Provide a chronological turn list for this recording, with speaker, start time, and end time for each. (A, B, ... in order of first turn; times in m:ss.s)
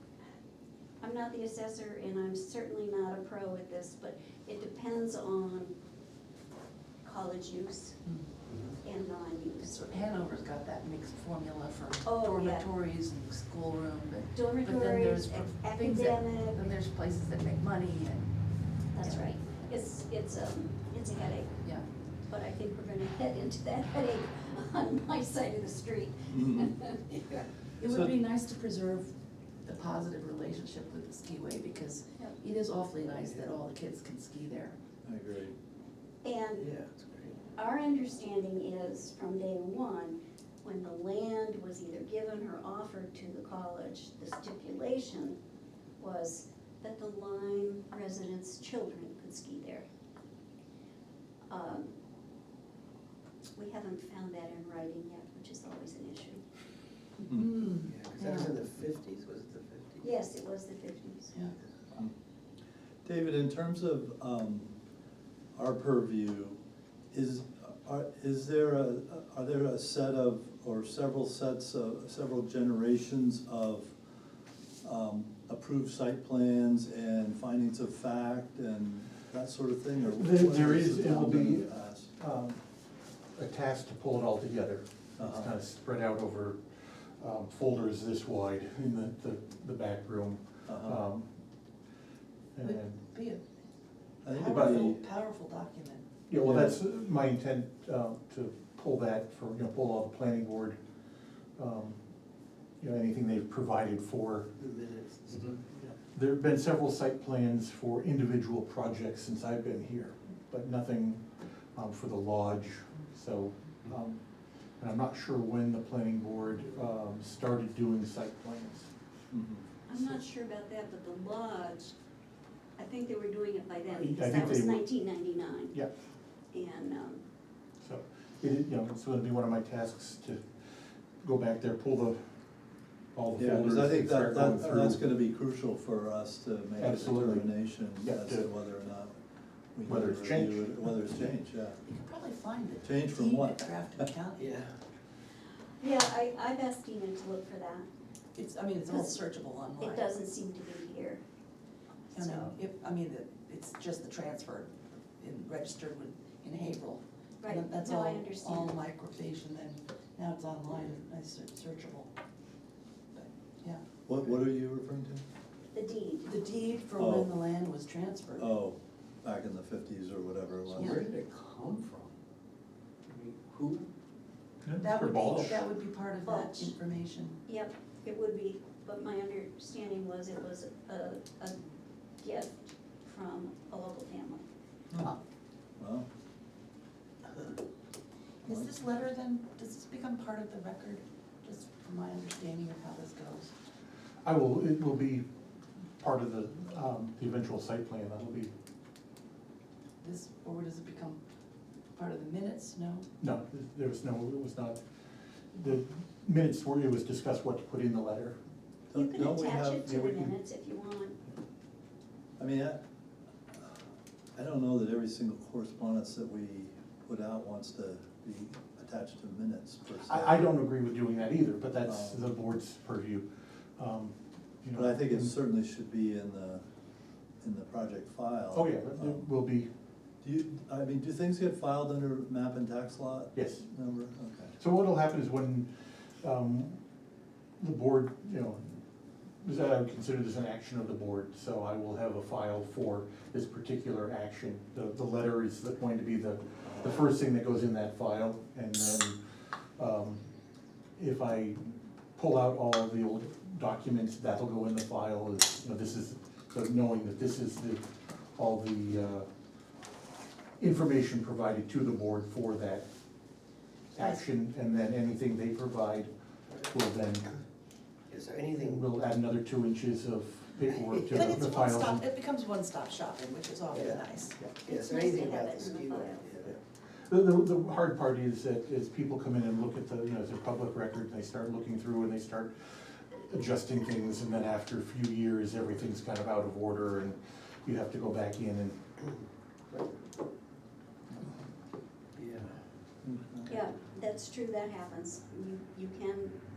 0:01.0-0:05.7 A
0:07.0-0:08.0 A
0:08.5-0:08.7 B
0:08.8-0:10.1 A
0:09.6-0:18.3 C
0:12.0-0:12.7 A
0:14.3-0:16.7 A
0:18.9-0:21.5 A
0:19.0-0:19.4 C
0:22.3-0:27.0 A
0:26.3-0:26.7 D
0:27.1-0:27.5 B
0:27.8-0:34.8 C
0:27.8-0:28.1 D
0:33.2-0:33.5 B
0:35.0-0:35.5 D
0:36.2-0:36.7 A
0:36.6-0:37.4 B
0:37.5-0:45.4 A
0:46.0-0:49.9 A
0:51.5-0:52.0 A
0:53.6-0:56.4 A
0:57.2-0:58.5 C
0:57.8-1:00.1 B
1:00.0-1:01.4 A
1:03.0-1:04.7 D
1:05.5-1:06.6 D
1:07.1-1:13.9 D
1:14.8-1:22.1 D
1:20.1-1:22.6 E
1:23.4-1:31.2 E
1:25.2-1:25.5 D
1:30.7-1:31.0 D
1:32.6-1:33.0 E
1:32.6-1:33.4 C
1:34.2-1:35.0 D
1:34.3-1:36.0 C
1:34.5-1:34.9 E
1:36.3-1:40.8 E
1:36.4-1:36.8 D
1:41.6-1:42.0 E
1:42.8-1:44.5 E
1:44.6-1:45.6 B
1:45.8-1:54.2 E
1:54.8-1:58.9 E
1:59.3-1:59.6 D
1:59.9-2:01.9 A
2:02.8-2:05.8 A
2:04.0-2:04.8 E
2:06.5-2:07.2 A
2:07.8-2:10.4 E
2:11.2-2:12.2 E
2:13.1-2:15.0 E
2:13.4-2:19.2 D
2:16.8-2:18.5 E
2:19.7-2:21.8 D
2:19.8-2:20.8 E
2:21.8-2:24.5 C
2:22.8-2:24.0 D
2:24.4-2:24.7 B
2:25.8-2:27.9 A
2:28.3-2:30.1 C
2:28.9-2:29.2 A
2:29.8-2:31.2 A
2:32.1-2:32.5 A
2:32.1-2:42.1 C
2:37.4-2:38.8 A
2:43.1-2:43.8 C
2:44.1-2:45.2 D
2:45.7-2:46.3 A
2:46.2-2:48.5 C
2:47.0-2:47.3 D
2:48.4-2:51.0 D
2:50.7-2:52.1 B
2:50.8-2:51.0 C
2:53.1-2:53.9 B
2:54.6-2:55.6 E
2:54.8-2:57.4 C
2:56.2-2:56.7 A
2:57.4-3:01.6 A
3:02.2-3:04.5 A
3:05.8-3:06.0 D
3:08.4-3:13.5 C
3:14.2-3:15.2 E
3:16.0-3:18.5 E
3:20.0-3:21.2 C
3:21.9-3:23.1 C
3:23.2-3:24.8 E
3:25.5-3:28.4 E
3:28.9-3:29.9 D
3:28.9-3:31.2 A
3:29.8-3:30.3 E
3:32.4-3:32.8 D
3:34.3-3:40.4 D
3:39.9-3:43.2 E
3:41.8-3:42.2 D
3:43.8-3:45.3 E
3:44.8-3:46.6 D
3:47.4-3:49.2 D
3:48.5-3:49.7 E
3:50.2-3:54.5 D
3:53.3-3:53.6 E
3:54.6-3:55.7 E
3:56.2-3:56.8 E
3:57.6-3:58.8 E
3:59.4-4:09.2 E
4:09.8-4:10.2 E
4:11.0-4:11.6 E
4:12.2-4:17.8 E
4:18.4-4:19.3 E
4:20.6-4:22.8 E
4:23.9-4:26.1 E
4:24.0-4:24.2 C
4:26.7-4:27.3 E
4:28.1-4:28.9 B
4:28.6-4:32.0 E
4:30.7-4:31.3 B
4:31.1-4:34.4 C
4:33.7-4:36.6 B
4:34.6-4:36.3 A
4:37.1-4:48.8 E
4:52.2-4:52.5 B
4:53.0-4:53.6 D
4:53.5-4:56.4 A